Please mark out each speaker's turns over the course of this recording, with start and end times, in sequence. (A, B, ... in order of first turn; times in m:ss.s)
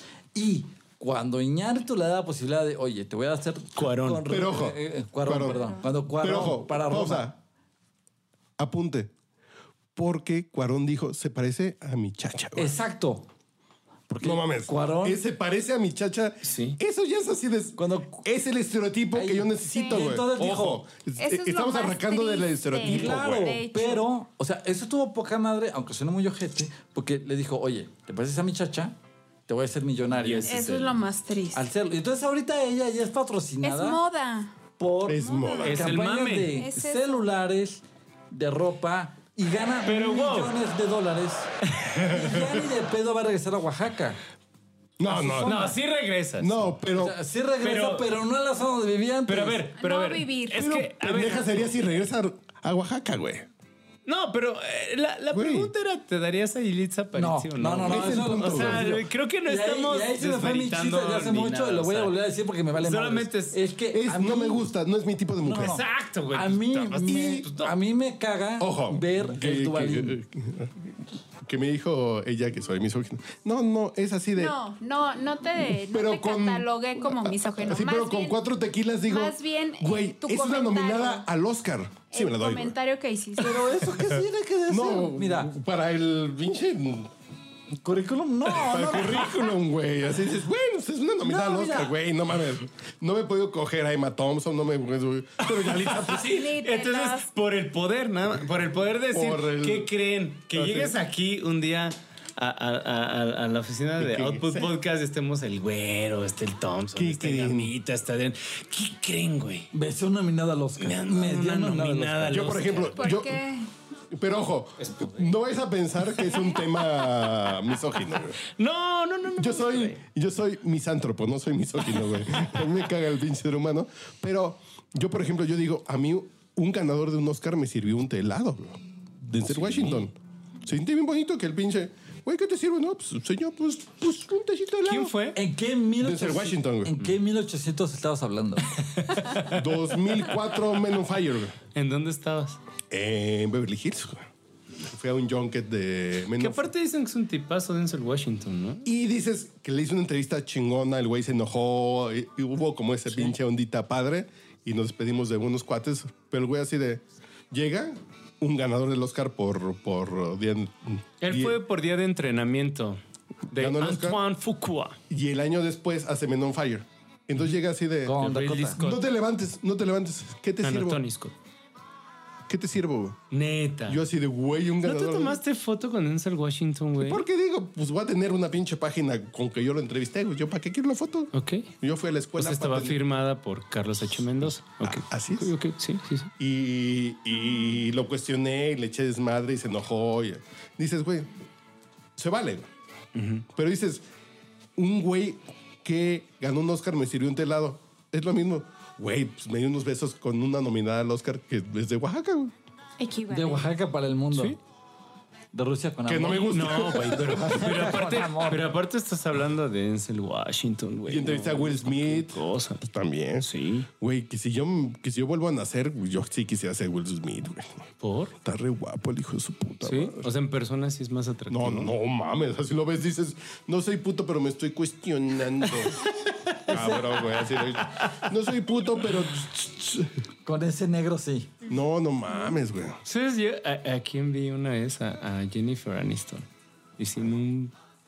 0:00.3-0:07.3 A
0:03.8-0:04.2 B
0:04.3-0:07.4 C
0:05.5-0:05.8 D
0:08.6-0:09.1 C
0:10.0-0:12.7 C
0:12.6-0:13.3 A
0:14.1-0:15.2 A
0:14.2-0:23.5 C
0:16.4-0:16.8 B
0:17.8-0:18.2 A
0:19.1-0:20.8 A
0:19.7-0:20.1 D
0:21.2-0:24.0 D
0:22.8-0:29.0 A
0:29.5-0:30.5 A
0:30.1-0:31.0 B
0:30.4-0:31.6 D
0:31.5-0:34.0 A
0:33.6-0:34.5 D
0:34.8-0:44.2 A
0:35.0-0:35.9 C
0:35.1-0:35.8 D
0:35.6-0:36.5 B
0:36.5-0:37.2 D
0:39.8-0:40.5 B
0:41.8-0:42.4 B
0:45.0-0:45.7 C
0:45.1-0:45.7 A
0:45.4-0:46.7 B
0:46.4-0:47.2 C
0:46.9-0:49.7 A
0:47.6-0:48.1 B
0:49.3-0:51.7 B
0:49.8-0:50.6 D
0:50.5-0:53.5 C
0:54.0-1:02.2 B
0:55.3-0:55.7 C
0:57.1-1:04.6 A
0:57.8-0:58.9 C
1:02.7-1:03.6 B
1:03.9-1:05.8 C
1:05.4-1:10.2 A
1:05.6-1:07.7 B
1:07.1-1:07.4 C
1:08.6-1:10.8 C
1:11.4-1:14.6 C
1:14.4-1:18.4 D
1:15.8-1:22.7 C
1:19.1-1:21.2 D
1:22.1-1:23.7 D
1:23.4-1:25.5 A
1:24.7-1:27.1 C
1:27.8-1:29.4 A
1:28.5-1:36.4 C
1:31.2-1:31.9 A
1:35.6-1:49.7 B
1:36.2-1:37.3 D
1:39.1-1:39.9 C
1:40.5-1:40.9 C
1:44.0-1:44.7 C
1:46.9-1:47.7 C
1:49.7-1:52.6 A
1:50.8-1:53.2 B
1:52.3-1:53.4 C
1:53.0-1:53.7 D
1:54.1-1:58.4 C
1:54.8-1:55.3 B
1:56.2-1:56.6 B
1:58.5-2:00.0 B
1:59.4-2:15.1 C
2:02.0-2:02.5 B
2:09.5-2:10.0 B
2:14.8-2:15.4 B
2:15.3-2:18.7 A
2:16.0-2:16.9 C
2:19.0-2:19.6 B
2:19.4-2:21.6 C
2:21.7-2:22.6 B
2:22.9-2:24.3 C
2:24.8-2:26.7 C
2:26.4-2:28.8 B
2:28.8-2:41.6 C
2:41.2-2:43.0 B
2:43.5-2:45.0 B
2:43.5-2:44.2 C
2:45.1-2:48.1 C
2:48.0-2:48.8 A
2:48.2-2:49.0 B
2:48.8-2:51.0 C
2:50.6-2:51.3 B
2:52.5-2:53.2 C
2:53.3-2:54.0 B
2:53.9-2:55.4 C
2:54.8-2:57.2 B
2:57.0-3:03.0 C
3:01.3-3:01.7 B
3:02.4-3:06.3 B
3:04.8-3:05.5 C
3:06.4-3:11.3 C
3:12.2-3:12.7 C
3:13.1-3:13.4 B
3:13.5-3:14.0 C
3:14.8-3:22.5 C
3:23.0-3:23.7 D
3:23.3-3:24.6 A
3:25.5-3:28.6 A
3:26.0-3:27.9 C
3:26.5-3:32.8 B
3:31.0-3:33.5 C
3:33.4-3:33.9 B
3:34.0-3:37.8 C
3:38.0-3:38.3 B
3:38.4-3:40.3 C
3:39.8-3:41.9 B
3:41.5-3:46.1 C
3:46.5-3:48.2 B
3:46.6-3:50.1 C
3:50.4-3:51.5 A
3:51.6-3:53.0 C
3:53.0-3:56.4 B
3:57.0-3:57.7 B